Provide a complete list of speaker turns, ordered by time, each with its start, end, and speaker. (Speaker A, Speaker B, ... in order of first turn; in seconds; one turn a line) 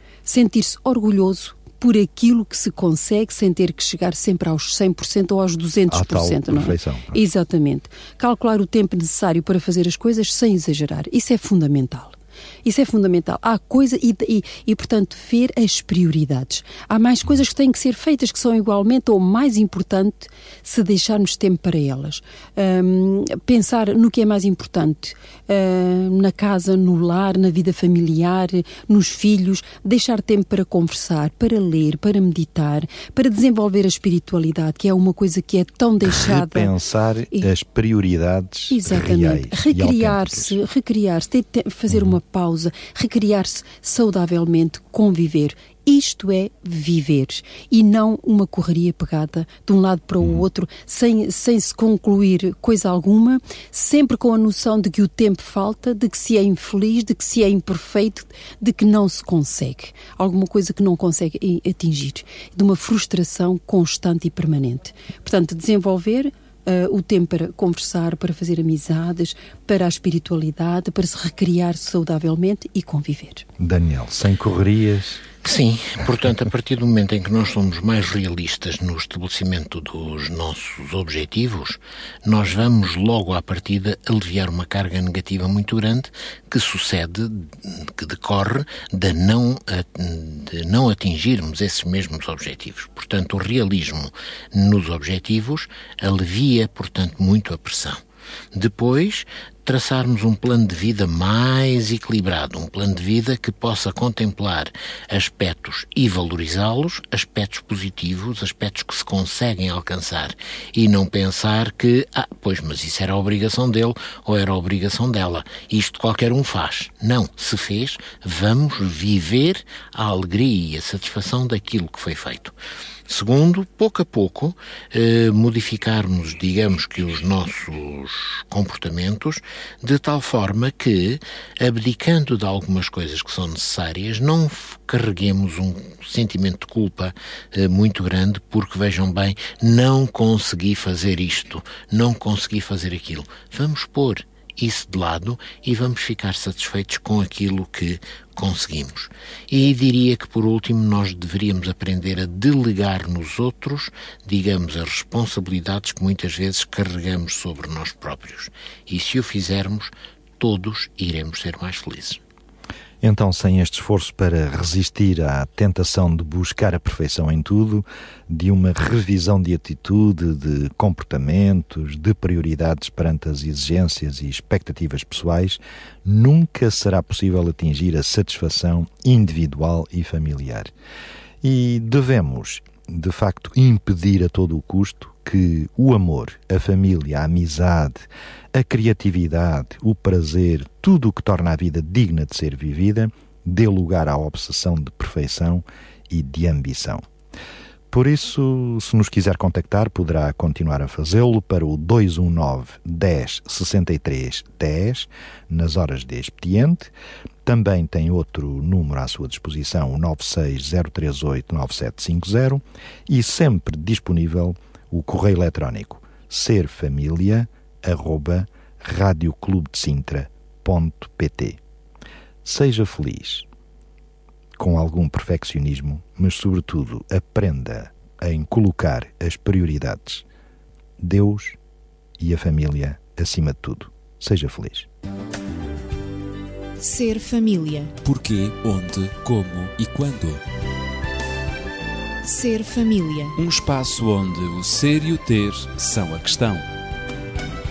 Speaker A: 0.3-36.7
Speaker B: 5.9-7.2
Speaker B: 36.0-40.6
Speaker A: 38.7-73.5
Speaker B: 41.9-42.2
Speaker B: 73.6-75.2
Speaker C: 75.4-98.0
Speaker C: 98.5-122.5
Speaker C: 123.1-162.2
Speaker B: 163.0-180.7
Speaker B: 181.4-197.1
Speaker B: 197.9-206.9
Speaker B: 207.4-221.6
Speaker B: 222.4-223.5
Speaker B: 224.6-230.2
Speaker B: 231.0-231.6
Speaker B: 232.2-234.9
Speaker D: 236.8-237.9
Speaker E: 238.0-240.4
Speaker D: 242.2-243.3
Speaker E: 243.4-246.7